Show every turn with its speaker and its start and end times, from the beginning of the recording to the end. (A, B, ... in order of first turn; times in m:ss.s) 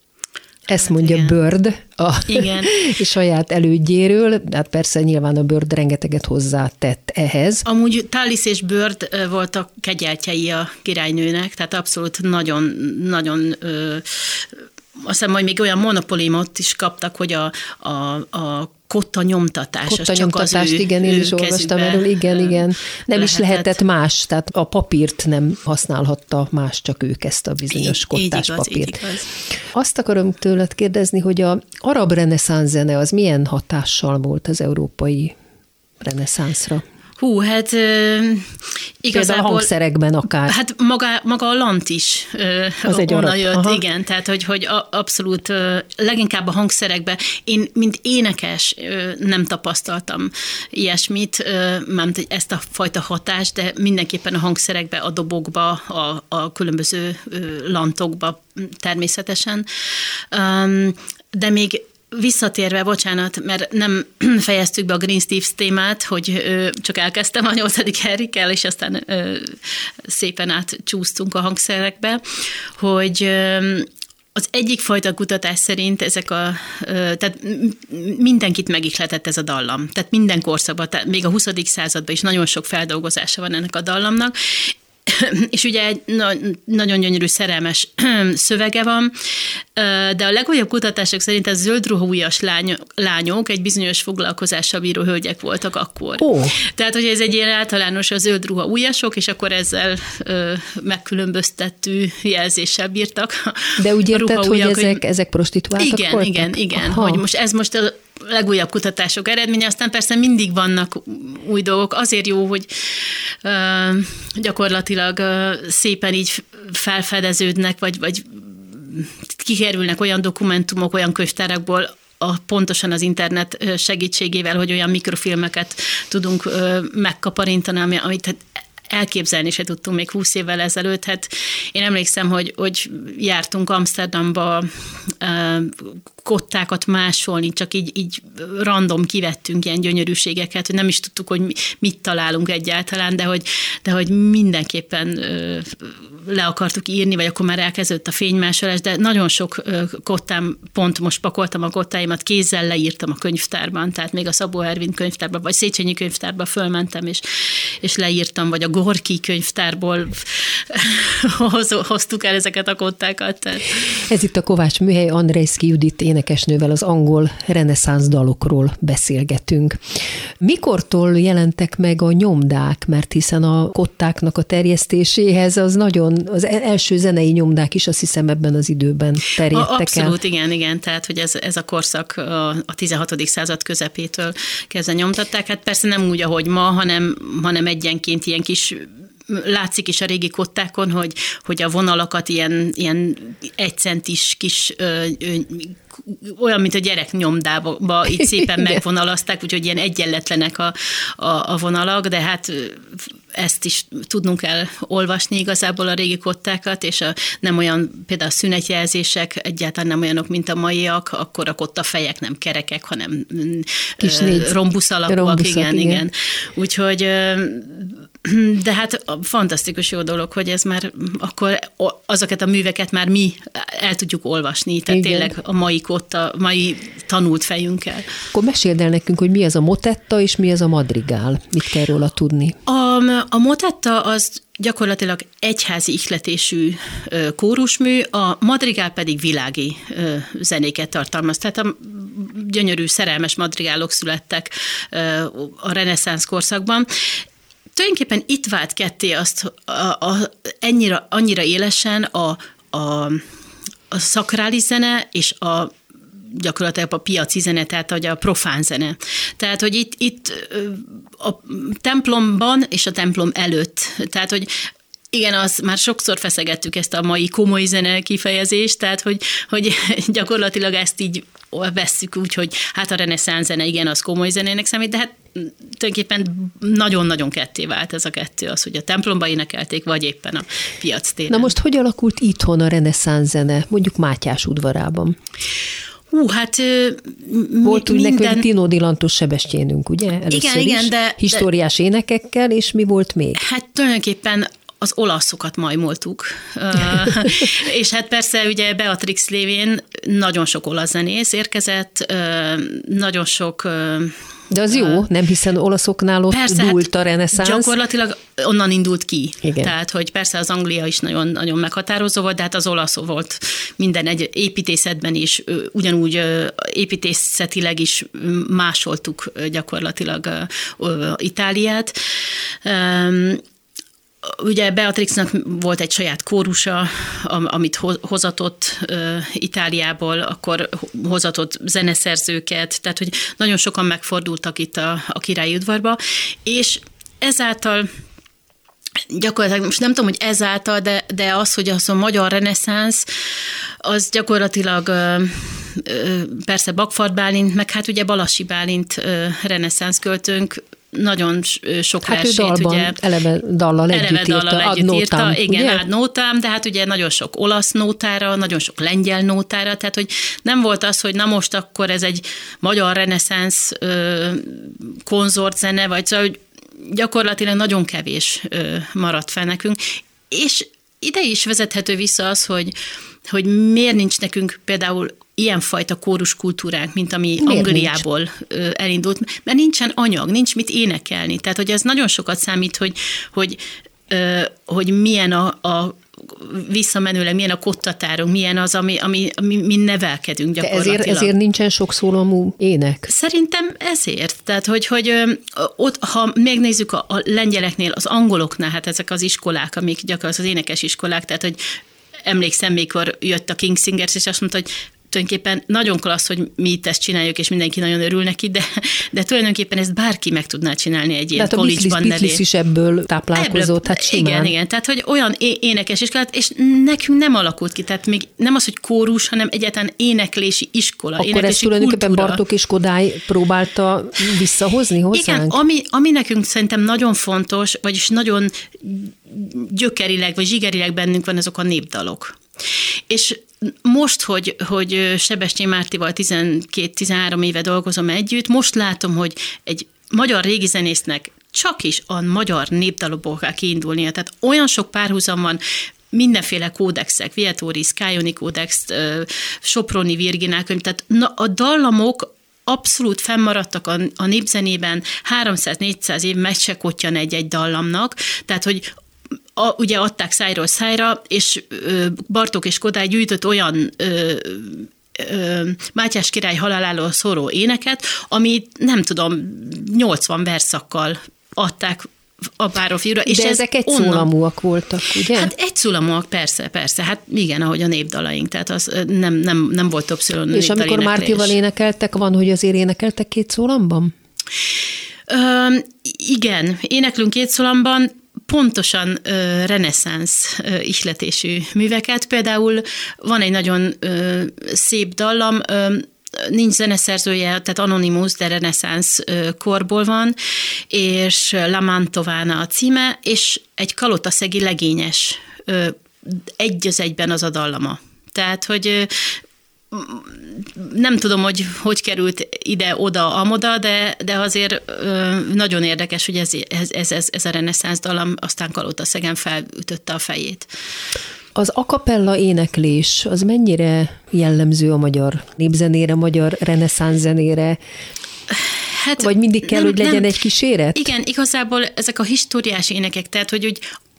0:00.7-0:07.6 A
0:00.8-0:01.3 B
0:02.3-0:02.7 B
0:07.7-0:23.8 B
0:19.9-0:29.0 A
0:27.7-0:29.3 B
0:29.7-0:35.4 A
0:36.0-0:36.8 A
0:37.2-0:38.5 B
0:39.0-0:39.7 B
0:39.1-0:40.6 A
0:40.5-0:59.7 B
0:42.9-0:43.8 A
1:00.3-1:12.2 B
1:12.8-1:29.1 B
1:29.8-1:45.0 B
1:36.2-1:36.6 A
1:43.8-1:47.2 A
1:45.8-2:37.2 B
2:37.8-2:44.0 B
2:44.0-2:49.8 A
2:50.4-3:00.2 A
2:59.5-3:48.1 B
3:18.2-3:18.8 A
3:34.0-3:34.6 A
3:35.1-3:36.0 A
3:44.9-3:45.3 A
3:48.3-3:52.6 A
3:52.7-4:06.9 B
4:07.8-4:13.2 B
4:13.9-4:15.7 B
4:16.3-4:24.5 B
4:25.1-4:41.5 B
4:41.3-4:45.2 A
4:46.1-4:48.4 B
4:47.6-4:53.4 A
4:50.3-4:51.4 B
4:53.4-5:04.2 B
5:04.5-5:07.8 A
5:04.7-5:05.0 B
5:06.3-5:22.0 B
5:09.4-5:09.7 A
5:22.6-5:23.4 B
5:24.2-5:37.9 B
5:39.1-5:43.1 B
5:43.8-5:53.0 B
5:52.0-5:55.8 A
5:53.9-6:12.8 B
6:13.3-6:31.3 B
6:17.4-6:18.0 A
6:30.6-6:33.1 A
6:33.1-6:41.6 B
6:42.2-6:52.4 B
6:51.4-6:54.5 A
6:53.4-7:02.4 B
7:01.2-7:05.6 A
7:05.1-7:25.6 B
7:26.1-7:38.9 B
7:39.6-7:54.3 B
7:53.3-7:55.5 A
7:55.3-8:01.6 B
8:00.5-8:04.1 A
8:05.3-8:20.4 B
8:20.9-8:29.4 B
8:29.9-8:40.7 B
8:41.6-8:47.8 A
8:48.9-8:50.3 B
8:49.2-8:51.1 A
8:51.0-8:53.9 B